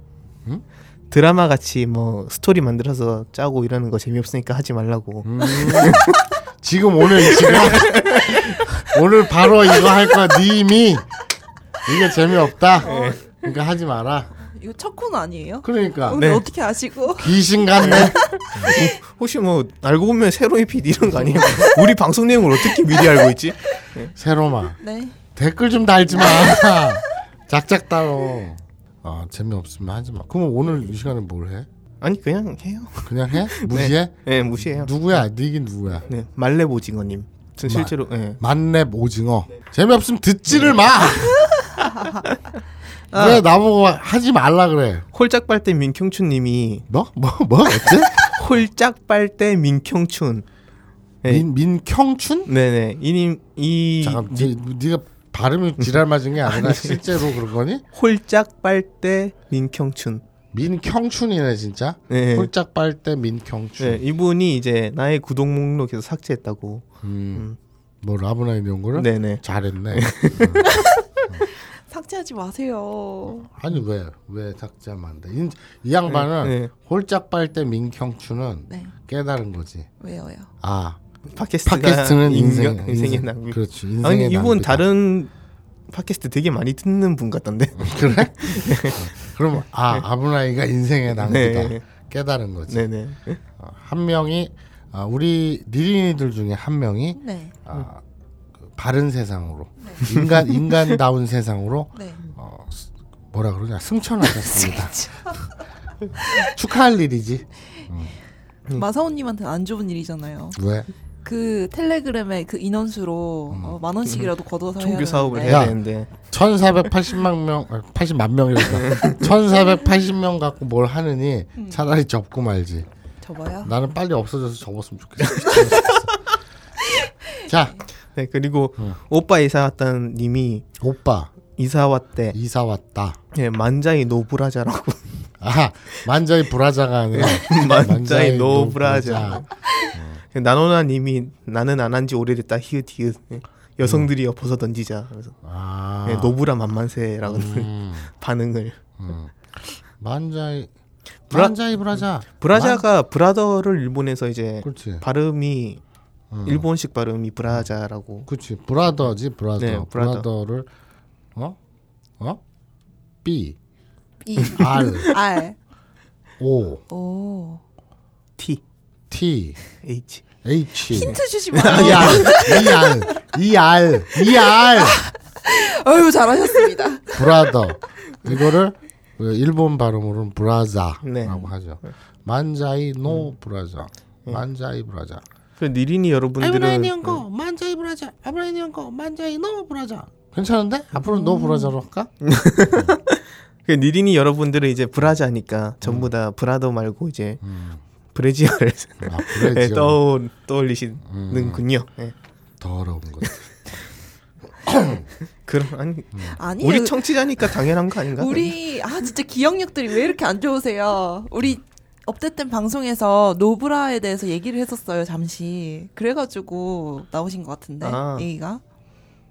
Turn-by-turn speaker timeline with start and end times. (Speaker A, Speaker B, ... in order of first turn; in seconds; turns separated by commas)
Speaker A: 1.1-6.2, Speaker B: 5.2-11.1, Speaker A: 7.2-8.6, Speaker B: 11.9-14.3, Speaker A: 12.8-13.2, Speaker C: 12.8-13.2, Speaker C: 14.4-18.1, Speaker B: 15.6-16.3, Speaker A: 16.1-16.4, Speaker B: 17.2-18.7, Speaker A: 17.8-24.1, Speaker B: 24.1-24.8, Speaker C: 24.8-25.2, Speaker B: 25.4-31.7, Speaker C: 26.3-26.8, Speaker A: 32.0-35.0, Speaker B: 33.0-36.1, Speaker A: 36.1-38.4, Speaker B: 37.6-41.5, Speaker A: 40.5-40.8, Speaker C: 41.1-42.2, Speaker C: 43.1-43.4, Speaker B: 43.1-45.1, Speaker A: 45.1-46.9, Speaker B: 46.9-48.4, Speaker A: 47.8-50.5, Speaker B: 51.3-52.5, Speaker A: 52.5-54.5, Speaker B: 54.0-57.8, Speaker A: 56.5-57.0, Speaker A: 57.9-60.2, Speaker B: 60.5-64.0, Speaker A: 62.1-62.5, Speaker A: 63.8-67.6, Speaker B: 67.0-67.5, Speaker B: 68.0-71.5, Speaker A: 69.0-70.8, Speaker C: 70.7-71.0, Speaker C: 71.5-73.5, Speaker B: 73.3-79.9, Speaker A: 76.1-76.7, Speaker C: 78.7-78.9, Speaker C: 80.0-80.5, Speaker B: 80.6-81.0, Speaker A: 81.3-85.3, Speaker B: 81.7-84.9, Speaker A: 85.9-89.0, Speaker B: 87.8-92.9, Speaker A: 91.2-91.8, Speaker A: 92.7-93.4, Speaker B: 93.6-98.0, Speaker C: 97.2-97.5, Speaker B: 98.6-105.2, Speaker C: 104.5-105.5, Speaker B: 106.3-108.1, Speaker C: 108.8-110.6, Speaker B: 110.5-110.9, Speaker C: 111.2-115.7, Speaker B: 113.5-113.8, Speaker A: 114.8-116.1, Speaker B: 115.5-122.9, Speaker A: 118.7-119.2, Speaker C: 121.6-121.8, Speaker C: 123.2-123.7, Speaker B: 123.6-126.3, Speaker C: 125.5-125.8, Speaker B: 127.5-127.8, Speaker A: 128.2-130.7, Speaker B: 130.8-131.3, Speaker A: 131.6-132.4, Speaker B: 132.3-133.2, Speaker A: 133.3-135.3, Speaker B: 135.4-140.2, Speaker A: 137.1-139.5, Speaker A: 140.3-145.4, Speaker B: 143.8-144.1, Speaker B: 145.4-146.3, Speaker A: 146.1-148.8, Speaker B: 147.3-148.1, Speaker B: 149.0-150.7, Speaker B: 151.3-152.8, Speaker A: 151.3-155.8, Speaker B: 154.6-155.1, Speaker B: 156.3-156.7, Speaker A: 156.4-158.3, Speaker B: 158.3-160.7, Speaker A: 159.6-160.3, Speaker B: 163.2-163.6, Speaker C: 164.2-165.6, Speaker A: 164.4-165.2, Speaker B: 164.5-165.1, Speaker B: 166.4-166.8, Speaker C: 166.9-167.6, Speaker B: 169.1-169.6, Speaker A: 169.8-170.2, Speaker B: 170.4-175.0, Speaker A: 170.9-172.6, Speaker C: 170.9-173.1, Speaker C: 174.3-177.5, Speaker B: 177.1-185.2, Speaker A: 181.0-181.9, Speaker A: 185.6-187.2, Speaker B: 186.4-192.1, Speaker C: 191.0-191.7, Speaker A: 192.2-197.4, Speaker B: 195.8-196.1, Speaker B: 197.4-197.8, Speaker A: 198.1-202.2, Speaker B: 199.0-200.0, Speaker B: 201.1-201.6, Speaker B: 202.6-203.4, Speaker B: 204.6-205.1, Speaker A: 205.4-208.5, Speaker C: 206.4-207.0, Speaker C: 208.2-218.6, Speaker A: 217.8-218.3